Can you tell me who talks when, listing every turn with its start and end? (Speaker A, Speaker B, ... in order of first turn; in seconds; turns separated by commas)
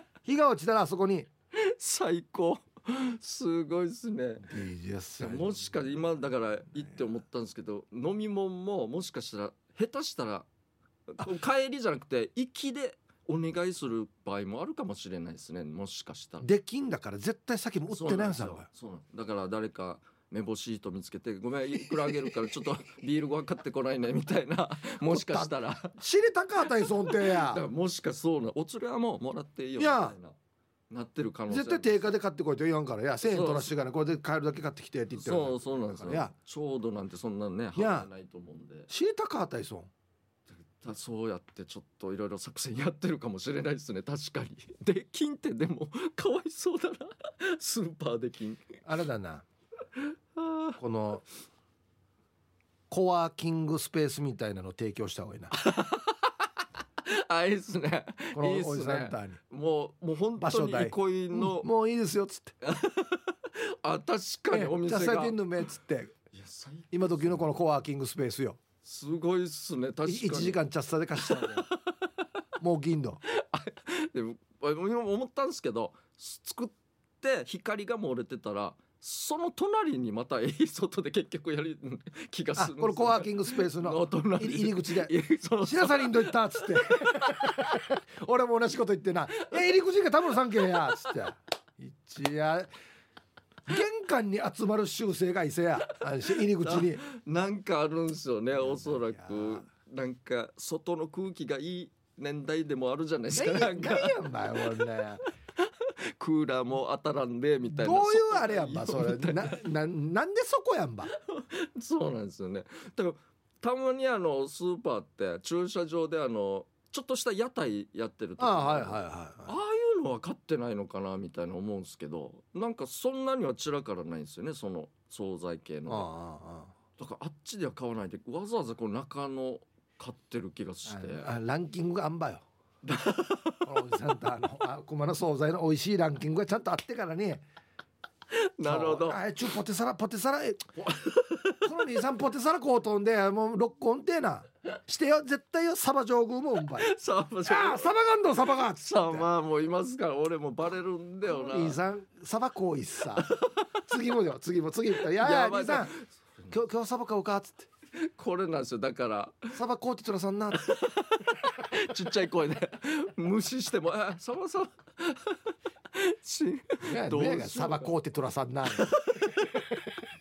Speaker A: 0.2-1.3, Speaker B: 1.5-4.5, Speaker A: 4.5-5.7, Speaker B: 5.2-10.5, Speaker B: 11.1-16.5, Speaker A: 16.4-18.6, Speaker B: 17.9-25.9, Speaker A: 21.9-22.5, Speaker A: 25.1-27.6, Speaker B: 26.8-30.4, Speaker A: 29.8-30.1, Speaker B: 30.9-32.0, Speaker A: 31.5-36.3, Speaker B: 33.2-33.7, Speaker B: 35.1-38.9, Speaker A: 37.8-38.1, Speaker A: 38.9-39.9, Speaker B: 40.6-48.8, Speaker A: 48.9-49.4, Speaker B: 50.0-50.8, Speaker A: 50.8-51.2, Speaker A: 52.9-55.5, Speaker B: 55.5-56.4, Speaker B: 57.0-61.7, Speaker A: 58.3-59.4, Speaker A: 60.4-62.5, Speaker B: 62.6-65.4, Speaker A: 64.5-66.1, Speaker B: 66.3-67.5, Speaker A: 66.9-68.6, Speaker B: 68.8-70.6, Speaker A: 70.0-71.7, Speaker B: 71.2-71.9, Speaker A: 72.6-73.2, Speaker B: 73.3-87.5, Speaker A: 82.5-85.1, Speaker A: 85.6-92.7, Speaker A: 93.7-97.0, Speaker B: 96.2-104.9, Speaker A: 98.5-99.6, Speaker A: 103.3-105.2, Speaker B: 105.6-109.6, Speaker A: 107.7-111.1, Speaker B: 111.1-126.1, Speaker A: 118.4-119.5, Speaker A: 125.9-126.7, Speaker B: 127.0-131.3, Speaker A: 130.8-132.4, Speaker B: 132.8-133.7, Speaker A: 133.6-137.4, Speaker B: 138.3-139.2, Speaker A: 138.6-140.7, Speaker B: 140.8-141.7, Speaker A: 141.6-146.9, Speaker B: 146.8-147.9, Speaker A: 147.4-149.3, Speaker B: 148.7-151.8, Speaker A: 151.2-153.3, Speaker B: 153.1-153.7, Speaker A: 153.9-155.9, Speaker B: 155.1-156.5, Speaker A: 156.5-157.7, Speaker B: 158.0-159.5, Speaker A: 159.5-160.7, Speaker B: 160.6-165.4, Speaker B: 165.9-167.9, Speaker A: 166.8-169.9, Speaker B: 168.7-169.3